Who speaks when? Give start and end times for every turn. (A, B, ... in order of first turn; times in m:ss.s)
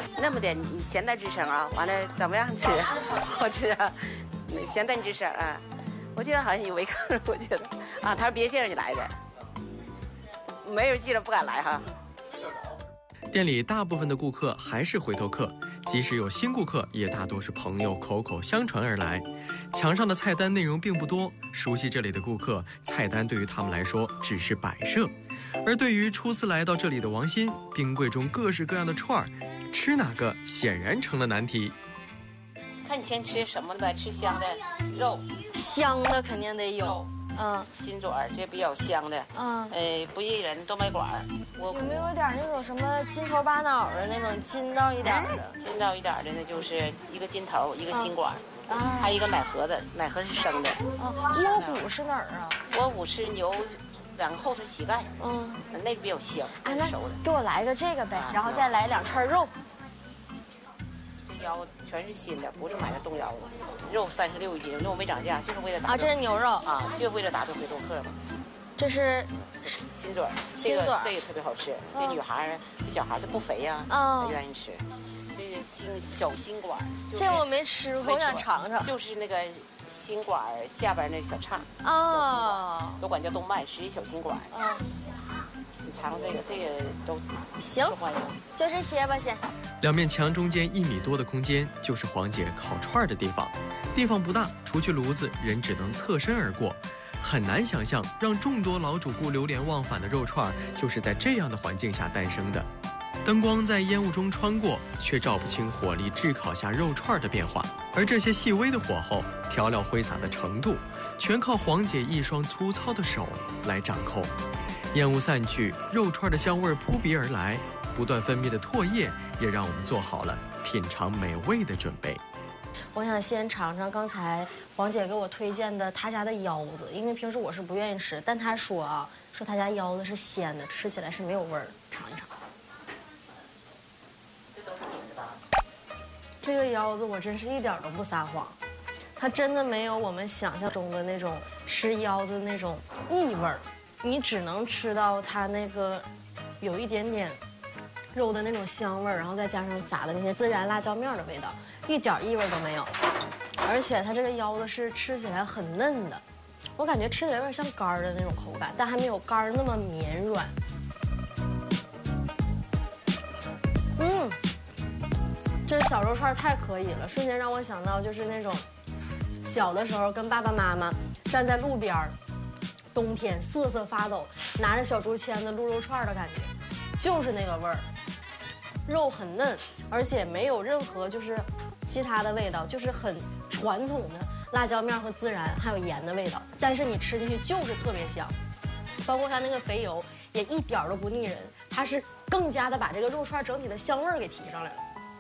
0:00.1-0:09.2 A
0:10.6-0:11.9 A
0:13.3-0:25.1 B
0:25.6-0:31.7 B
0:32.8-0:35.2 A
0:35.5-0:37.7 C
0:37.7-0:42.1 A
0:39.3-0:39.8 C
0:41.7-0:45.5 C
0:45.1-0:51.8 A
0:48.7-0:49.2 C
0:51.0-0:52.6 C
0:52.7-0:55.1 A
0:55.2-0:55.7 C
0:55.7-0:57.2 A
0:56.6-0:59.6 C
0:58.2-0:58.7 A
1:01.2-1:08.2 A
1:05.8-1:06.7 C
1:08.8-1:09.3 C
1:09.5-1:17.5 A
1:10.5-1:11.2 C
1:11.9-1:12.2 C
1:13.9-1:14.4 C
1:17.1-1:18.9 C
1:18.0-1:24.5 A
1:21.8-1:23.0 C
1:24.5-1:24.8 C
1:25.8-1:27.2 A
1:27.6-1:28.0 C
1:27.8-1:28.4 A
1:28.5-1:29.4 C
1:29.8-1:42.7 B
1:43.2-1:54.3 B
1:54.9-2:02.2 B
2:02.9-2:12.3 C
2:16.4-2:18.6 C
2:19.2-2:26.0 C
2:26.6-2:27.4 C
2:28.1-2:32.9 C
2:33.6-2:36.2 C
2:36.8-2:40.6 C
2:44.0-2:44.4 C
2:45.6-2:48.6 C
2:49.4-2:52.2 C
2:52.9-2:57.9 C
2:58.8-3:08.3 C
3:09.0-3:14.8 C